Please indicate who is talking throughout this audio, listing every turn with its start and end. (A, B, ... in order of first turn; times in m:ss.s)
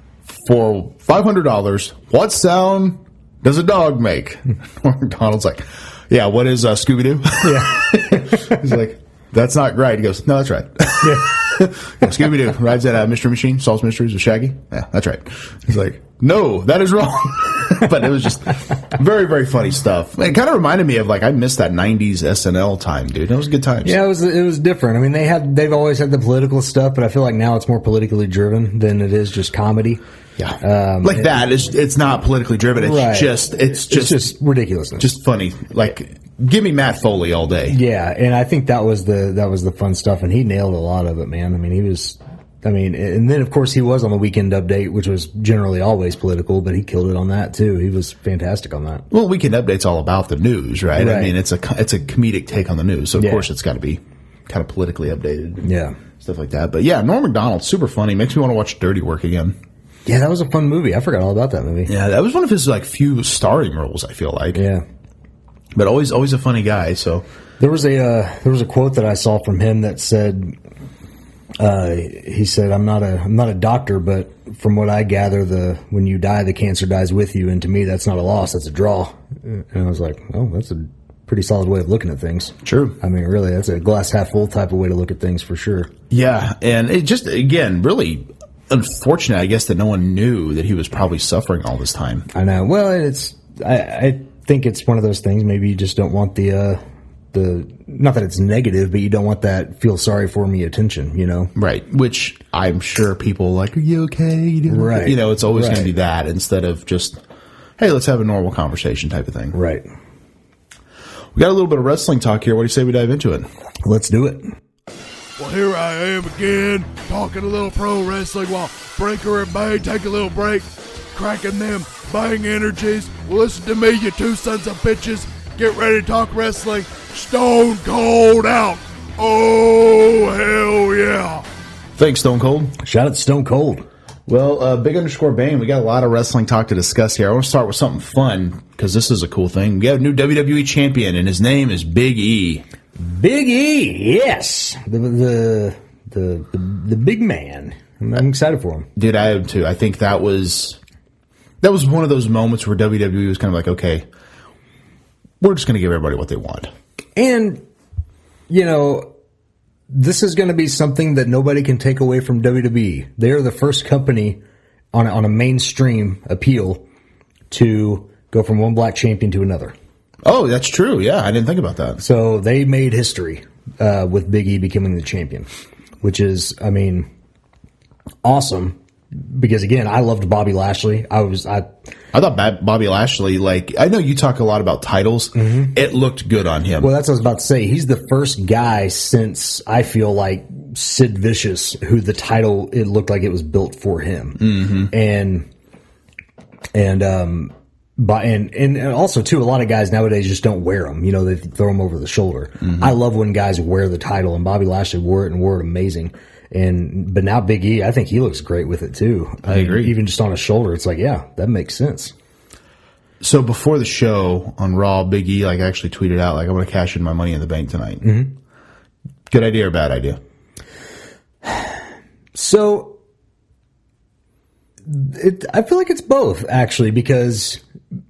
0:00.3-0:24.0 A
0:07.4-0:08.6 B
0:11.0-0:11.4 B
0:23.8-0:30.0 B
0:30.4-0:34.3 A
0:30.6-0:31.3 B
0:32.7-0:35.1 B
0:35.0-0:37.8 A
0:37.7-0:49.0 B
0:49.1-0:55.7 A
0:51.0-0:51.4 B
0:53.2-0:53.5 B
0:55.6-0:56.0 B
0:56.2-0:59.6 A
1:00.0-1:01.9 B
1:01.8-1:04.6 A
1:04.5-1:04.8 B
1:05.7-1:07.2 A
1:07.6-1:10.5 B
1:11.6-1:25.9 B
1:22.6-1:22.9 A
1:26.1-1:32.3 A
1:32.3-1:36.8 B
1:37.3-1:41.5 B
1:41.5-1:47.2 A
1:44.7-1:45.9 B
1:47.8-1:49.6 A
1:49.5-1:49.8 B
1:51.3-1:53.5 A
1:53.8-1:54.5 B
1:55.4-2:11.4 C
2:12.0-2:12.8 A
2:12.8-2:13.8 B
2:14.3-2:22.6 A
2:23.0-2:28.9 B
2:29.0-2:30.8 A
2:31.6-2:34.0 A
2:35.4-2:36.7 A
2:37.2-2:37.6 B
2:38.5-2:39.1 B
2:39.9-2:44.4 B
2:44.9-2:46.8 B
2:47.5-2:49.7 B
2:50.2-2:52.0 A
2:52.0-2:55.5 B
2:56.0-2:57.1 B
2:58.2-3:01.7 B
3:02.1-3:06.9 A
3:05.4-3:05.8 B
3:06.8-3:15.4 B
3:14.4-3:14.9 A
3:16.7-3:32.1 B
3:22.6-3:22.9 A
3:29.4-3:29.9 A
3:33.2-3:38.0 A
3:38.0-3:38.3 B
3:39.3-3:40.2 A
3:42.3-3:42.9 B
3:44.9-3:47.6 B